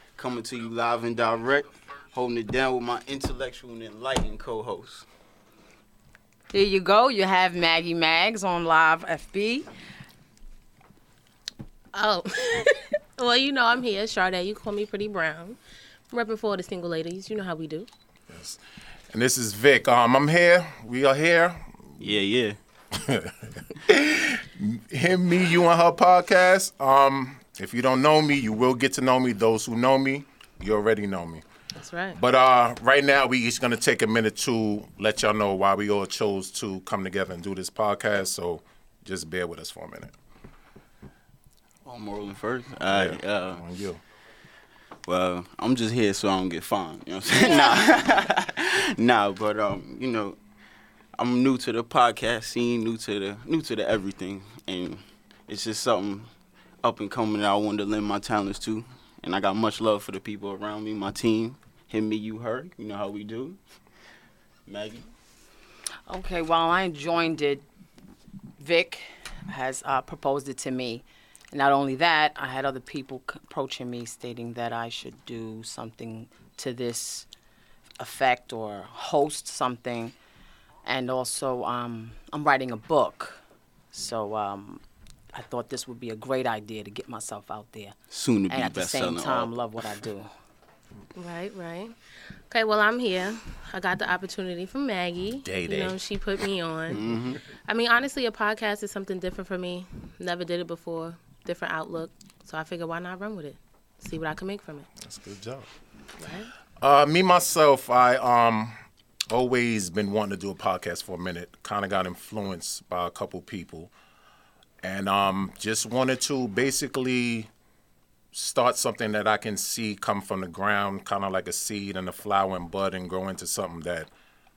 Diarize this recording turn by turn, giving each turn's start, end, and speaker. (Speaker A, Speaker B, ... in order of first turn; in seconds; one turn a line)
Speaker A: 0.1-5.0
Speaker B: 6.5-9.7
Speaker C: 11.9-15.6
Speaker C: 16.1-17.9
Speaker D: 18.3-22.0
Speaker A: 22.0-22.6
Speaker D: 22.9-31.4
Speaker C: 31.8-32.2
Speaker D: 32.1-40.1
Speaker A: 41.8-43.6
Speaker D: 42.9-44.0
Speaker A: 45.0-50.4
Speaker A: 51.2-56.3
Speaker A: 56.8-63.6
Speaker A: 64.7-65.0
Speaker B: 66.1-67.6
Speaker B: 68.6-77.2
Speaker B: 78.0-80.1
Speaker B: 80.8-83.4
Speaker B: 83.9-84.8
Speaker B: 85.3-87.9
Speaker A: 88.1-89.5
Speaker B: 88.5-90.3
Speaker C: 91.2-91.9
Speaker C: 92.5-97.0
Speaker D: 95.4-96.0
Speaker A: 96.9-97.4
Speaker C: 97.7-104.9
Speaker D: 105.0-105.7
Speaker C: 106.2-106.5
Speaker D: 106.8-108.7
Speaker D: 109.3-113.9
Speaker D: 114.8-117.5
Speaker D: 118.3-124.1